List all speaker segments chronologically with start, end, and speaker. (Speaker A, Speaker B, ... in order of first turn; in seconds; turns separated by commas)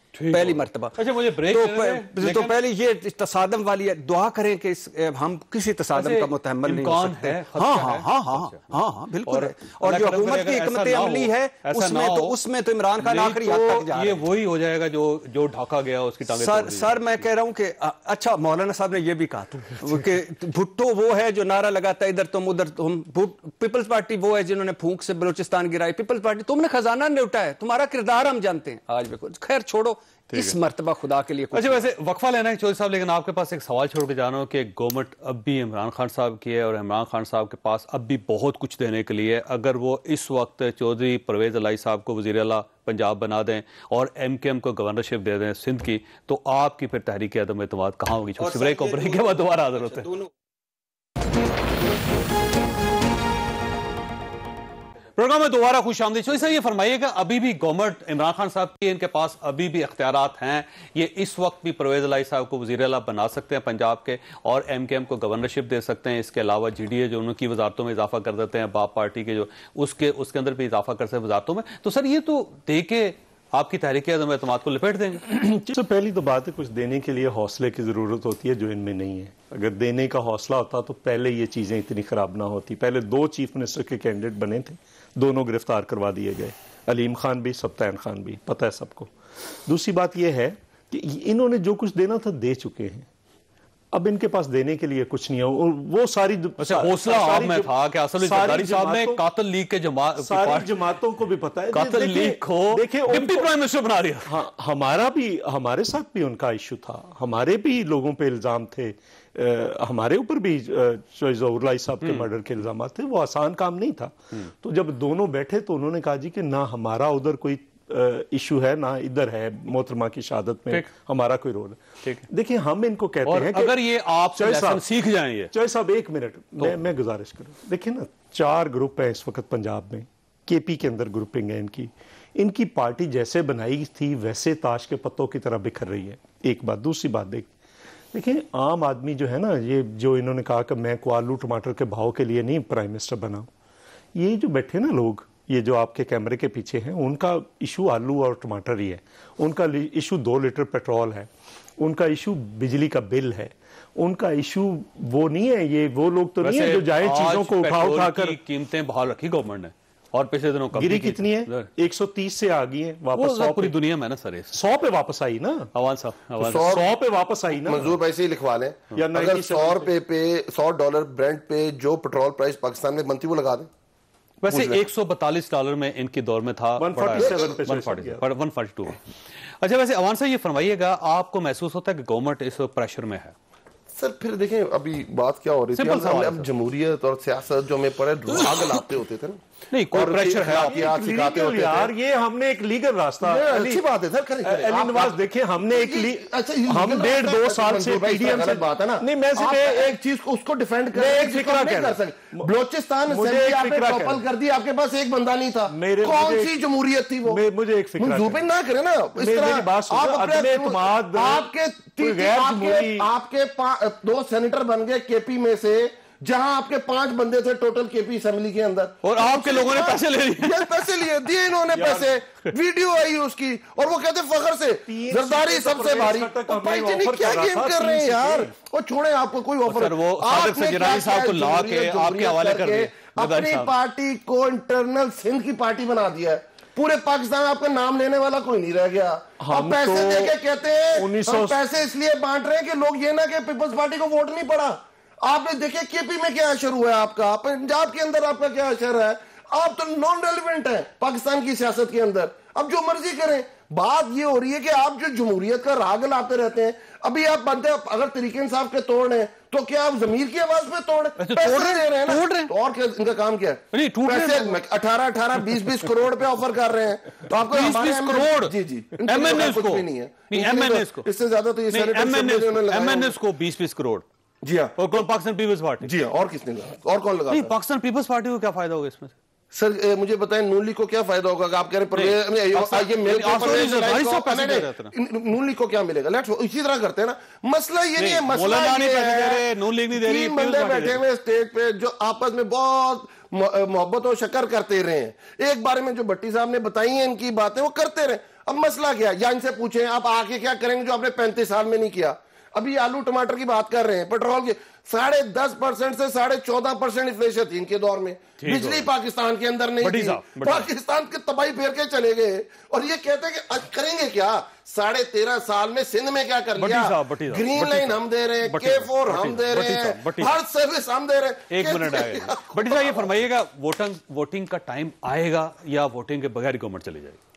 Speaker A: 0.1-2.6, Speaker B: 0.3-14.2, Speaker A: 5.9-8.7, Speaker A: 9.2-12.4, Speaker A: 13.0-17.2, Speaker B: 16.3-31.8, Speaker A: 30.3-30.6, Speaker A: 31.5-50.1, Speaker B: 48.4-50.3, Speaker A: 55.2-75.4, Speaker C: 75.3-89.1, Speaker C: 89.6-93.1, Speaker C: 93.9-99.2, Speaker A: 96.6-100.8, Speaker C: 100.2-103.5, Speaker A: 101.7-104.3, Speaker C: 104.2-124.8, Speaker A: 112.0-112.3, Speaker A: 123.2-125.5, Speaker C: 125.5-137.5, Speaker C: 138.1-143.5, Speaker C: 144.1-158.4, Speaker A: 156.4-161.7, Speaker C: 160.7-163.8, Speaker A: 163.1-164.6, Speaker C: 164.5-165.7, Speaker A: 165.7-166.7, Speaker D: 166.4-166.8, Speaker C: 166.4-167.9, Speaker D: 167.7-173.7, Speaker C: 168.9-169.9, Speaker A: 174.4-179.0, Speaker D: 174.4-174.8, Speaker C: 176.8-178.2, Speaker D: 177.2-177.6, Speaker A: 179.6-183.3, Speaker D: 183.9-189.4, Speaker A: 185.7-186.5, Speaker A: 189.7-191.0, Speaker D: 189.9-191.9, Speaker C: 190.5-193.8, Speaker D: 193.2-207.4, Speaker C: 194.4-199.9, Speaker C: 200.9-202.5, Speaker C: 203.1-204.2, Speaker C: 205.7-206.6, Speaker C: 207.2-208.5, Speaker D: 208.0-273.1, Speaker C: 209.2-213.1, Speaker A: 219.0-221.1, Speaker C: 221.7-222.1, Speaker C: 224.9-228.5, Speaker A: 229.7-233.7, Speaker C: 239.4-240.4, Speaker C: 240.9-241.6, Speaker A: 261.2-262.5, Speaker A: 263.7-264.6, Speaker A: 267.3-268.5, Speaker A: 269.0-271.1, Speaker A: 271.7-274.0, Speaker D: 274.4-275.0, Speaker A: 274.8-275.9, Speaker D: 275.8-277.5, Speaker A: 277.3-279.1, Speaker D: 279.5-323.0, Speaker A: 281.9-284.9, Speaker A: 288.0-291.0, Speaker A: 308.4-308.9, Speaker A: 309.8-310.7, Speaker A: 316.6-320.4, Speaker A: 321.5-327.2